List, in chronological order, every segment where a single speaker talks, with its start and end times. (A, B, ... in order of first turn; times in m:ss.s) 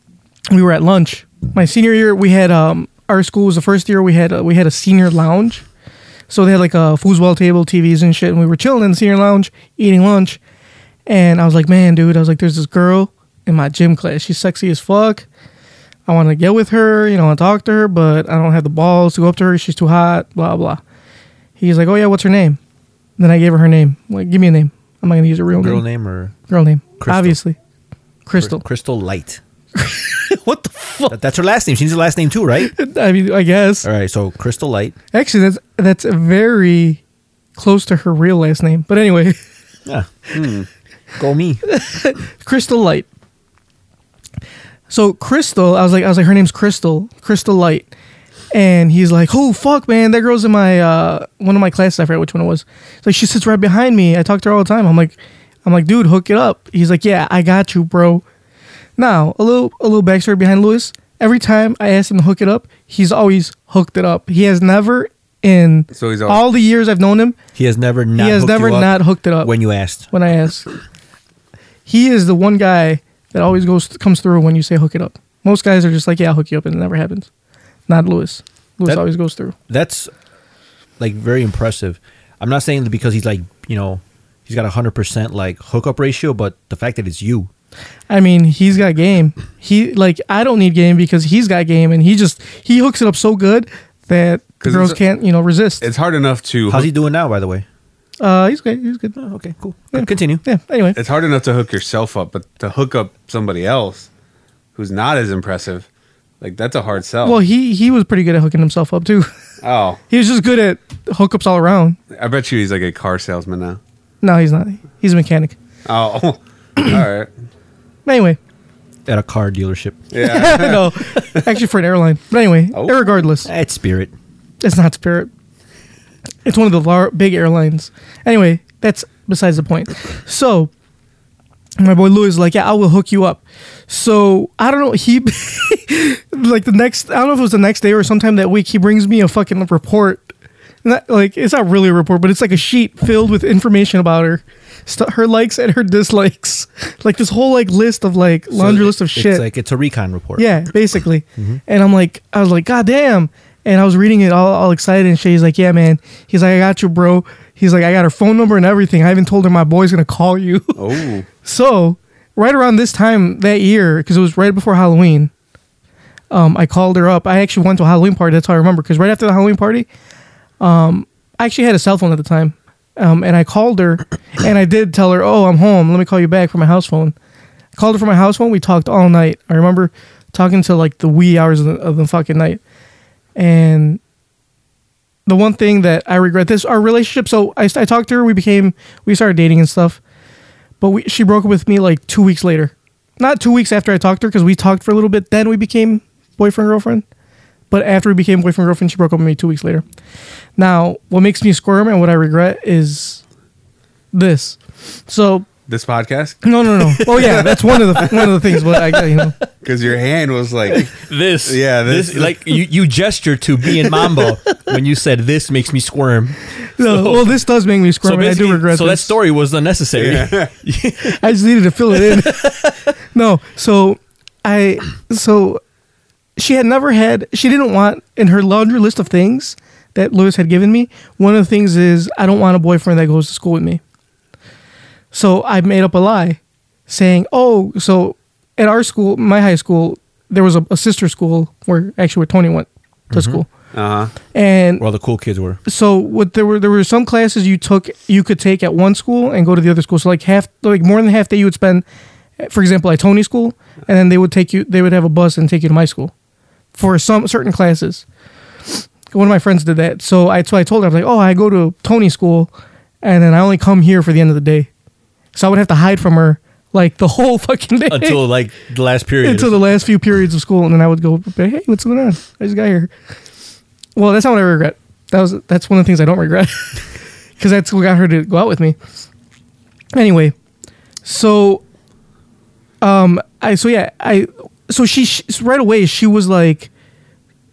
0:00.5-0:05.6 A
0:06.3-0:10.4 A
0:11.1-0:15.3 A
0:16.1-0:20.8 A
0:21.6-0:22.6 A
0:23.2-0:25.8 A
0:25.6-0:26.3 B
0:26.5-0:27.6 A
0:27.0-0:27.4 B
0:28.3-0:28.6 A
0:28.4-0:29.4 B
0:29.8-0:31.2 A
0:31.1-0:32.7 B
0:32.6-0:33.9 A
0:33.8-0:35.0 B
0:35.1-0:37.0 A
0:37.6-0:39.4 A
0:40.3-0:40.7 C
0:41.2-0:41.6 B
0:41.7-0:43.1 A
0:44.9-0:47.9 A
0:48.5-0:58.2 A
0:59.0-1:07.4 A
1:05.9-1:06.4 C
1:07.6-1:10.1 B
1:08.2-1:10.7 A
1:11.9-1:17.3 A
1:17.9-1:19.5 A
1:19.7-1:20.1 B
1:21.0-1:27.5 B
1:28.1-1:35.9 A
1:34.6-1:35.0 C
1:35.8-1:36.9 C
1:36.7-1:37.7 B
1:38.2-1:39.2 A
1:39.2-1:40.4 B
1:39.9-1:41.0 A
1:41.0-1:44.1 C
1:44.8-1:45.9 C
1:46.4-1:47.4 C
1:47.2-1:49.3 A
1:49.6-1:50.0 C
1:50.1-1:52.0 A
1:52.1-1:53.8 C
1:54.2-1:55.6 A
1:55.8-1:57.3 C
1:58.1-1:58.4 A
1:59.1-2:00.1 B
2:00.1-2:00.9 C
2:00.2-2:03.5 A
2:02.7-2:03.0 C
2:03.4-2:04.1 B
2:04.6-2:05.3 A
2:06.4-2:10.7 A
2:11.8-2:20.3 A
2:20.8-2:29.5 A
2:28.5-2:30.7 B
2:30.4-2:40.8 A
2:40.8-2:41.3 C
2:41.4-2:45.3 A
2:46.3-2:49.9 A
2:50.6-2:57.2 A
2:57.8-3:02.6 A
3:03.4-3:04.0 A
3:05.3-3:10.0 A
3:10.8-3:17.0 A
3:17.7-3:19.8 A
3:20.6-3:23.2 A
3:24.1-3:25.5 A
3:25.7-3:26.4 C
3:26.4-3:29.4 A
3:26.9-3:29.4 B
3:27.1-3:28.3 C
3:29.6-3:30.9 C
3:30.7-3:37.4 B
3:31.4-3:32.6 C
3:36.8-3:39.1 A
3:38.0-3:41.2 B
3:40.0-3:40.5 C
3:41.1-3:42.5 A
3:41.9-3:42.9 B
3:43.1-3:45.6 A
3:46.4-3:53.8 A
3:55.1-4:03.5 A
4:03.1-4:03.4 B
4:03.7-4:04.1 C
4:04.3-4:04.8 A
4:04.8-4:05.6 B
4:05.7-4:11.8 A
4:12.4-4:16.1 A
4:16.8-4:18.0 A
4:18.7-4:22.5 A
4:23.0-4:24.7 A
4:25.3-4:28.2 A
4:27.9-4:29.7 B
4:29.2-4:32.9 A
4:34.0-4:36.8 A
4:37.4-4:38.8 A
4:39.9-4:40.4 A
4:41.0-4:41.6 A
4:42.8-4:46.7 A